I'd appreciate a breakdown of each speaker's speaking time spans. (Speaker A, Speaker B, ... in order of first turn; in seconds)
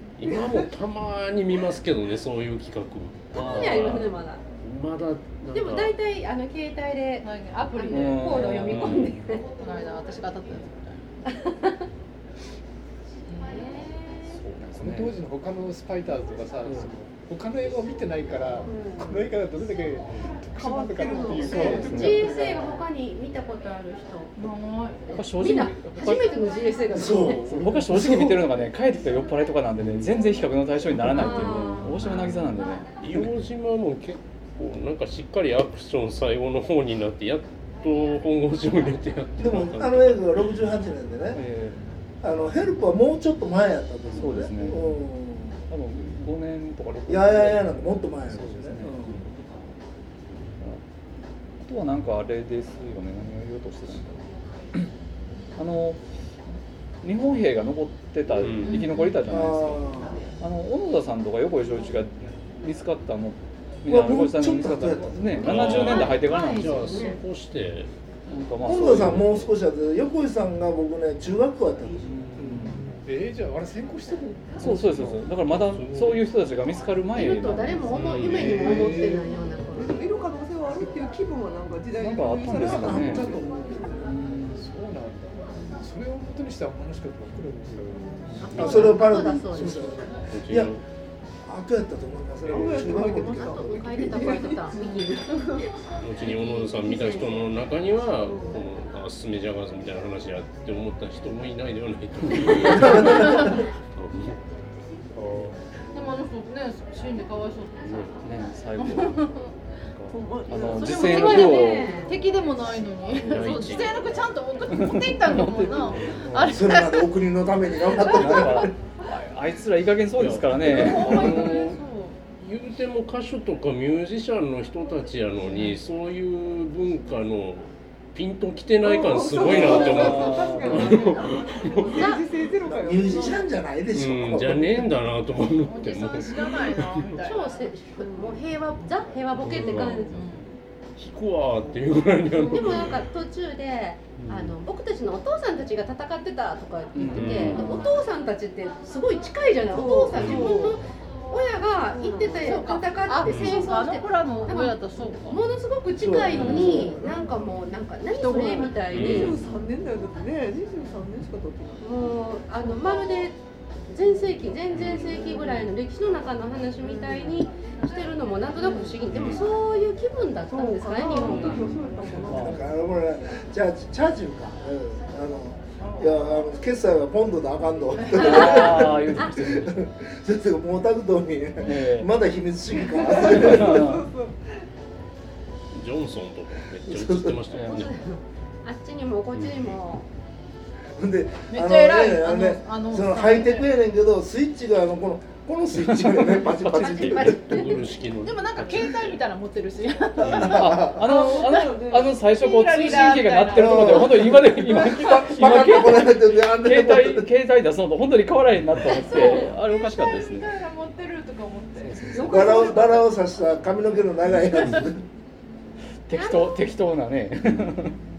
Speaker A: 0.2-5.9, 8.7-9.1, 29.8-30.1, 33.0-40.4, 58.4-58.9, 65.4-67.9, 68.7-69.5, 75.5-76.3, 77.9-78.5, 88.5-89.0, 90.3-90.8, 96.0-104.4, 105.2-105.5, 107.8-108.2, 113.2-114.0, 115.9-116.2, 120.2-121.8, 122.3-131.7, 133.9-137.2, 139.3-140.2, 141.0-143.1, 144.2-144.6, 147.1-147.8, 150.1-150.6, 153.2-153.7, 156.3-156.9, 158.9-159.4, 164.7-165.3, 169.1-169.5, 185.7-187.9, 189.3-189.8, 197.3-199.2, 200.2-200.6
Speaker B: 3.3-4.1, 7.9-9.2, 14.3-15.2, 21.5-22.4, 25.1-26.3, 27.5-32.9, 41.4-41.8, 44.2-45.0, 45.7-49.4, 51.6-54.9, 55.6-56.0, 57.0-59.8, 60.4-67.0, 68.3-69.3, 72.0-73.0, 74.6-79.0, 82.0-83.4, 84.0-84.6, 108.2-109.2, 109.8-112.0, 114.7-116.4, 118.0-121.3, 129.4-131.0, 146.9-147.9, 171.2-171.7, 172.3-172.6, 178.1-179.9, 181.6-182.1, 183.4-184.1, 187.5-187.9, 195.9-197.4, 200.4-210.5, 211.8-212.6, 216.1-217.9
Speaker C: 3.3-4.4, 5.5-9.5, 11.3-11.8, 13.3-14.4, 18.6-19.3, 21.0-24.3, 25.3-27.5, 31.0-32.2, 65.5-67.2, 77.2-80.0, 88.4-90.1, 93.3-95.6, 96.2-97.4, 98.3-98.6, 110.9-112.2, 131.9-132.2, 137.2-140.3, 142.3-159.5, 161.8-163.4, 163.9-171.6, 178.2-178.6, 187.7-190.1, 197.3-197.9, 216.1-216.7
Speaker D: 7.2-8.4, 9.6-11.0, 13.3-13.8, 24.4-25.9, 58.7-59.2, 103.1-103.6, 105.9-108.1, 108.8-109.6, 110.7-117.1, 120.6-122.2, 135.6-137.7, 139.8-140.5, 152.4-155.4, 158.2-158.7, 175.8-176.1, 191.5-193.7, 196.9-204.4, 208.9-213.1
Speaker E: 14.8-22.8, 73.0-75.2, 77.9-79.3, 84.4-88.6
Speaker F: 20.6-22.5, 79.7-83.2, 92.5-95.7, 110.1-111.0, 128.8-133.5, 149.7-150.8, 151.9-152.6, 156.5-157.3, 158.3-161.9, 162.8-163.3, 165.2-165.6, 168.6-168.9, 170.5-172.7, 182.8-184.6
Speaker G: 26.9-28.4, 39.4-41.4, 42.2-45.6, 47.1-49.2, 59.3-60.2, 63.9-65.8, 68.6-72.8, 82.5-84.0, 88.6-90.8, 91.5-94.2, 102.7-103.5, 116.3-118.7, 132.7-134.9, 149.7-150.1, 156.0-157.0, 172.2-183.9, 186.9-187.4, 191.0-197.5, 200.3-201.1, 203.5-207.3, 212.3-215.0